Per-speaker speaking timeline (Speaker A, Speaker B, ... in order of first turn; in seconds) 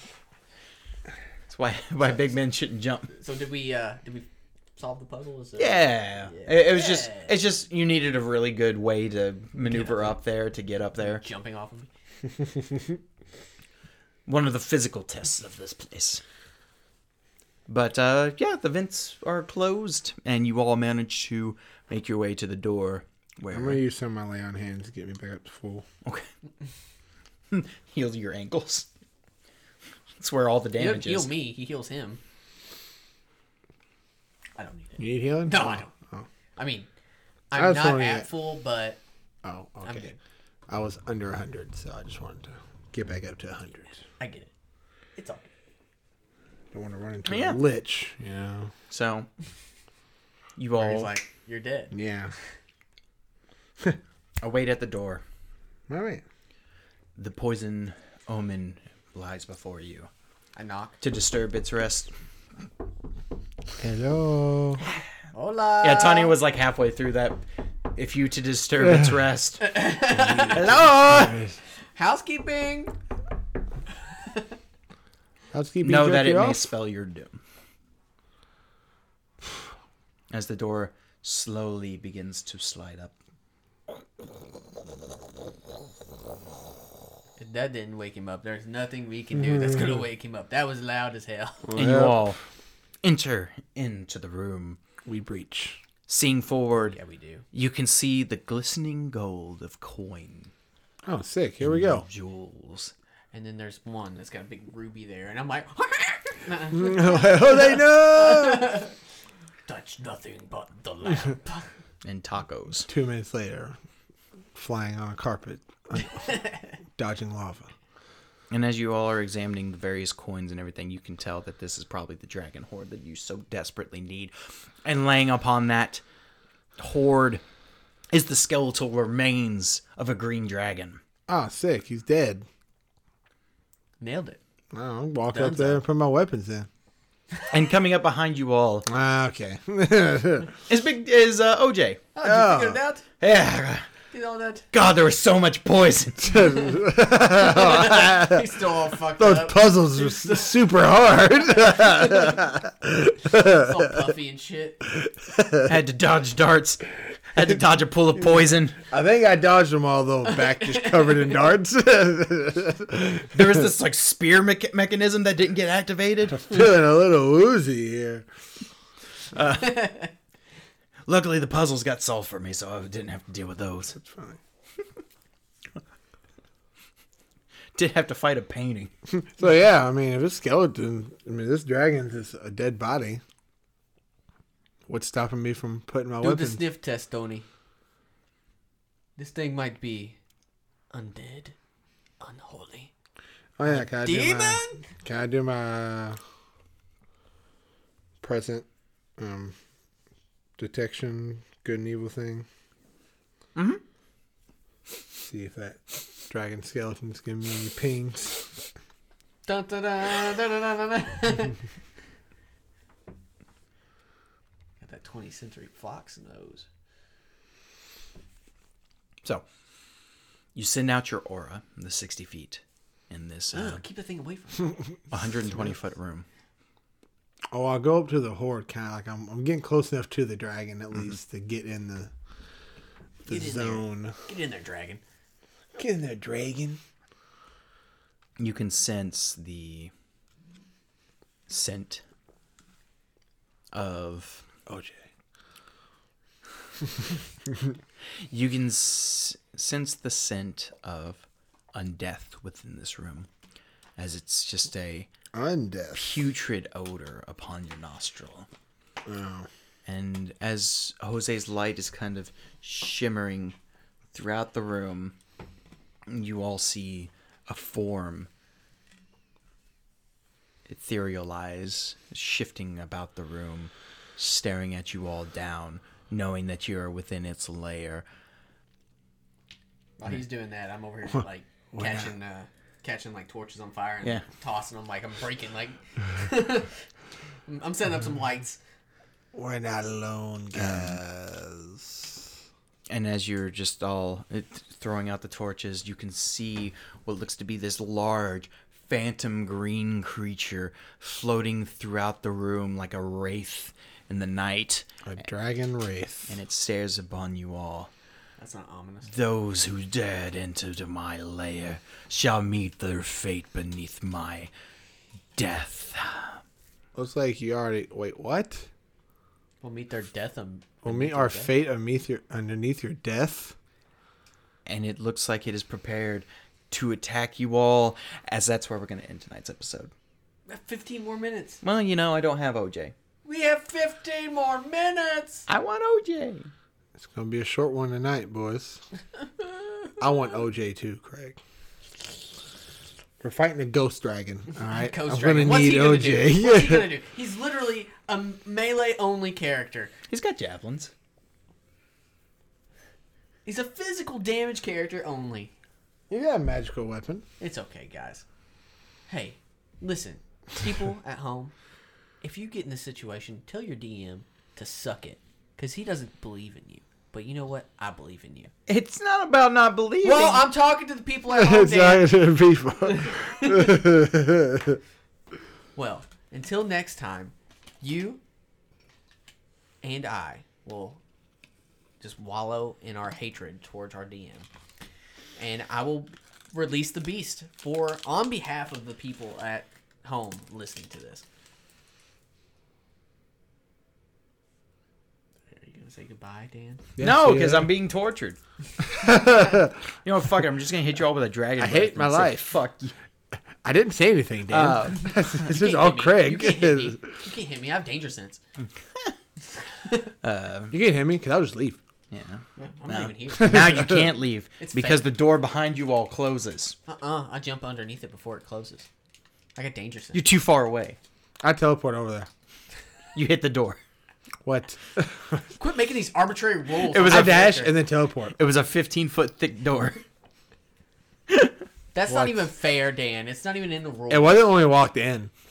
Speaker A: 1.5-3.1, 5.6-11.2, 14.3-16.2, 17.7-23.8, 27.5-28.9, 30.2-31.3, 47.2-47.6, 48.9-49.3, 50.6-51.1, 54.4-55.2, 57.1-60.1, 61.0-62.1, 65.8-67.4, 68.0-69.8, 70.5-71.4, 75.8-77.4, 80.3-83.1, 91.7-92.4, 93.0-94.8, 96.1-97.0, 97.5-100.5, 101.6-102.9, 112.0-112.9, 118.5-124.3, 124.8-126.0, 126.8-127.4, 128.1-131.0, 137.5-138.9, 140.7-142.0, 143.2-143.9, 144.7-146.5, 155.7-158.8, 163.3-166.5, 169.3-170.1, 171.1-174.0, 177.8-178.9, 203.6-203.8, 220.5-223.8, 225.1-226.2, 238.4-239.9, 241.5-242.0, 243.7-244.4, 248.3-253.3, 254.0-255.1, 255.9-258.5, 259.9-263.6, 264.1-265.1, 266.1-268.3, 270.7-278.1, 290.5-291.0, 292.9-304.9, 306.3-307.9, 309.1-314.5, 315.4-316.4, 324.6-329.9, 331.6-332.9, 335.5-336.5, 350.1-350.9, 368.7-370.4, 397.0-398.4, 400.0-402.9, 404.5-405.3, 410.2-410.7, 412.1-416.8, 420.1-421.0, 423.1-423.8, 426.9-427.7, 428.4-430.0
Speaker B: 3.1-7.3, 9.6-10.2, 11.1-11.9, 30.8-32.2, 34.5-35.9, 36.6-36.9, 37.5-39.0, 39.8-40.1, 44.2-44.5, 45.1-45.5, 50.8-51.9, 60.5-61.0, 65.3-66.3, 69.6-70.9, 71.9-72.9, 87.4-91.7, 96.9-97.5, 103.3-108.9, 109.7-111.7, 116.0-116.7, 134.0-134.4, 135.3-135.8, 142.1-143.0, 144.1-144.7, 146.4-150.7, 153.3-154.9, 160.2-161.4, 169.6-170.0, 186.2-187.4, 189.2-190.2, 190.9-191.6, 192.2-192.9, 193.6-194.8, 209.4-211.5, 214.8-216.7, 223.5-224.9, 233.2-235.0, 280.0-286.8, 287.4-288.6, 308.4-309.1, 319.6-321.5, 330.5-331.6, 333.2-335.5, 344.6-349.9, 353.4-355.5, 357.4-358.2, 359.1-361.5, 362.2-368.5, 370.0-372.2, 372.9-373.8, 375.7-378.2, 379.8-381.0, 382.0-384.5, 385.4-391.2, 395.5-396.9, 404.9-408.4, 412.6-413.8, 414.6-415.1, 416.9-418.9, 419.5-420.2, 425.6-427.7, 431.9-434.5
Speaker C: 23.5-25.8, 35.0-36.2, 37.5-38.3, 39.4-40.1, 40.7-44.0, 46.7-48.7, 51.9-52.3, 55.9-56.2, 63.8-64.8, 70.1-71.5, 75.5-76.7, 91.7-92.3, 95.0-95.8, 101.0-102.0, 106.7-108.8, 112.8-113.8, 114.5-116.1, 117.0-117.7, 131.3-132.4, 134.7-136.7, 138.9-140.5, 142.2-142.8, 146.3-148.4, 149.2-153.7, 155.2-155.7, 158.9-163.4, 166.4-168.2, 174.0-174.4, 179.1-183.2, 184.9-186.6, 193.6-196.2, 198.2-198.7, 199.2-199.5, 200.6-202.5, 205.1-208.5, 227.5-232.1, 233.3-234.1, 235.8-236.8, 244.7-245.0, 255.3-256.2, 259.0-259.5, 281.7-282.1, 289.3-292.2, 305.1-306.4, 316.9-318.7, 320.8-323.5, 337.0-338.8, 340.0-341.4, 343.2-346.9, 356.1-357.2, 371.3-374.8, 397.0-397.7, 398.9-399.7, 401.6-402.5, 403.6-407.0, 410.7-411.8, 413.4-414.1, 421.4-422.3, 424.4-425.4, 427.0-428.4, 432.1-432.5, 434.1-435.3